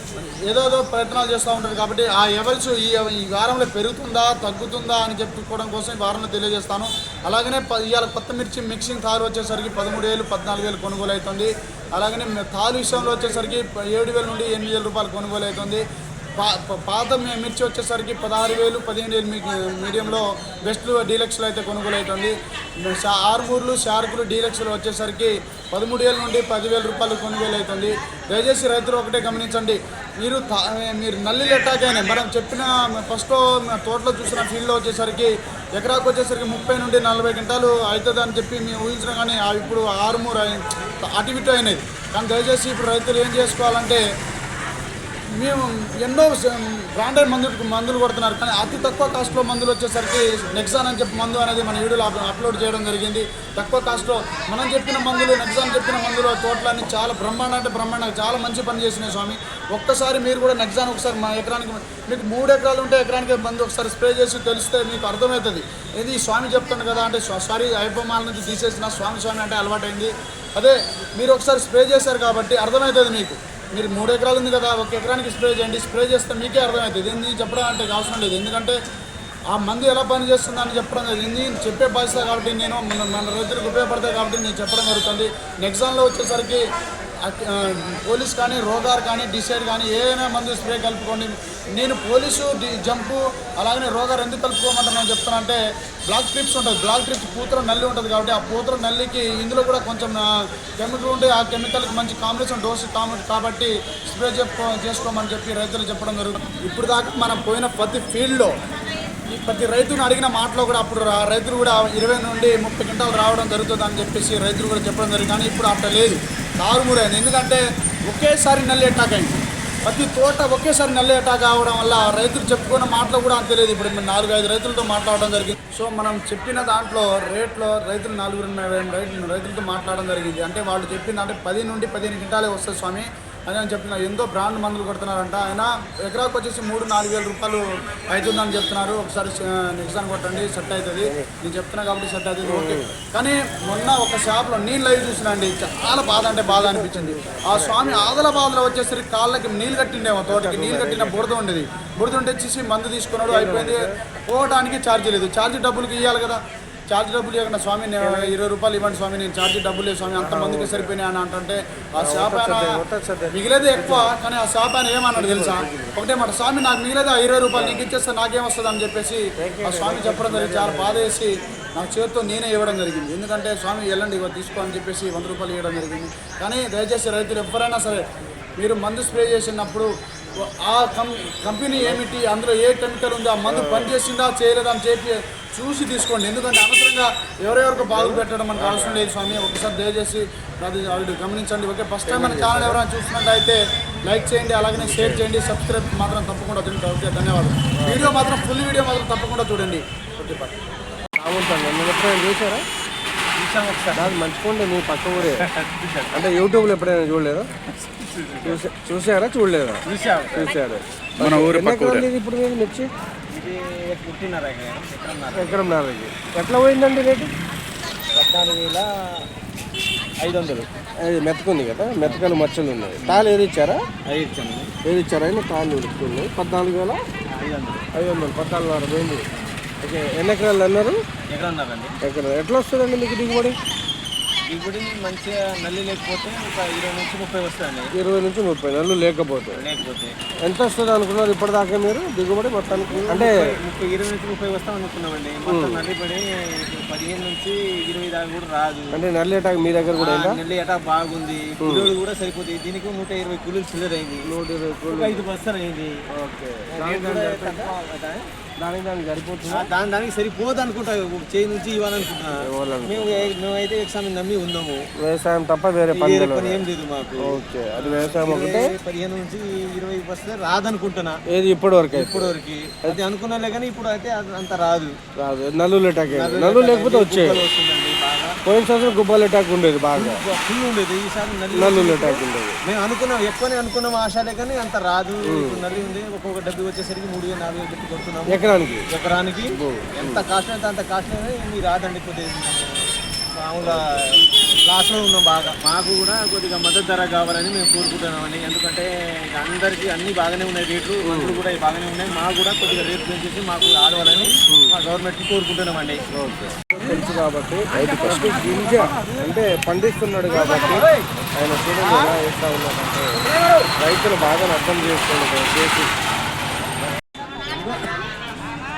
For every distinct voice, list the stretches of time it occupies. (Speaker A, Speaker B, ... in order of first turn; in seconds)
Speaker A: 0.1-15.8, 16.4-44.0, 45.4-78.8, 79.5-86.6, 87.2-100.3, 100.8-108.5, 109.3-178.0, 178.6-199.8, 211.2-212.1
Speaker B: 141.0-141.3, 142.4-142.9, 146.1-148.2, 150.3-151.3, 153.3-153.9, 158.0-158.3, 160.2-160.9, 162.0-164.1, 165.1-166.2, 167.5-167.9, 169.4-171.1, 183.4-183.9, 187.8-189.2, 192.1-192.8, 194.7-195.2, 197.8-198.2, 200.2-200.5, 201.2-202.6, 203.9-205.4, 206.1-207.5, 208.4-209.8, 210.3-212.9, 215.3-217.3, 221.0-223.8, 224.8-227.0, 227.9-229.2, 229.8-231.0, 232.0-233.6, 237.9-239.6, 240.4-243.4, 245.4-245.9, 248.9-250.4, 251.6-251.9, 254.2-255.3, 256.1-257.7, 258.6-259.7, 262.4-263.3, 265.0-266.6, 267.2-268.7, 271.3-273.0, 275.2-277.4, 278.4-280.2, 281.5-282.6, 285.2-285.6, 288.3-288.9, 289.5-290.2, 301.0-301.4, 304.5-304.8, 306.1-310.8, 311.4-313.2, 313.8-316.0
Speaker C: 203.4-204.2, 205.2-206.3, 207.8-208.6, 209.8-210.5, 213.3-215.6, 218.1-219.2, 220.2-220.7, 223.0-223.2, 224.1-224.7, 227.3-227.9, 231.3-231.9, 234.5-237.9, 239.5-240.2, 242.7-249.0, 249.9-254.3, 254.9-255.9, 256.7-258.3, 259.5-264.9, 265.9-271.2, 271.9-274.9, 276.1-278.4, 279.9-292.8, 293.4-293.8, 294.6-306.0, 306.7-307.1, 307.7-309.4, 310.3-311.1, 311.8-312.2, 313.2-313.7, 317.4-318.0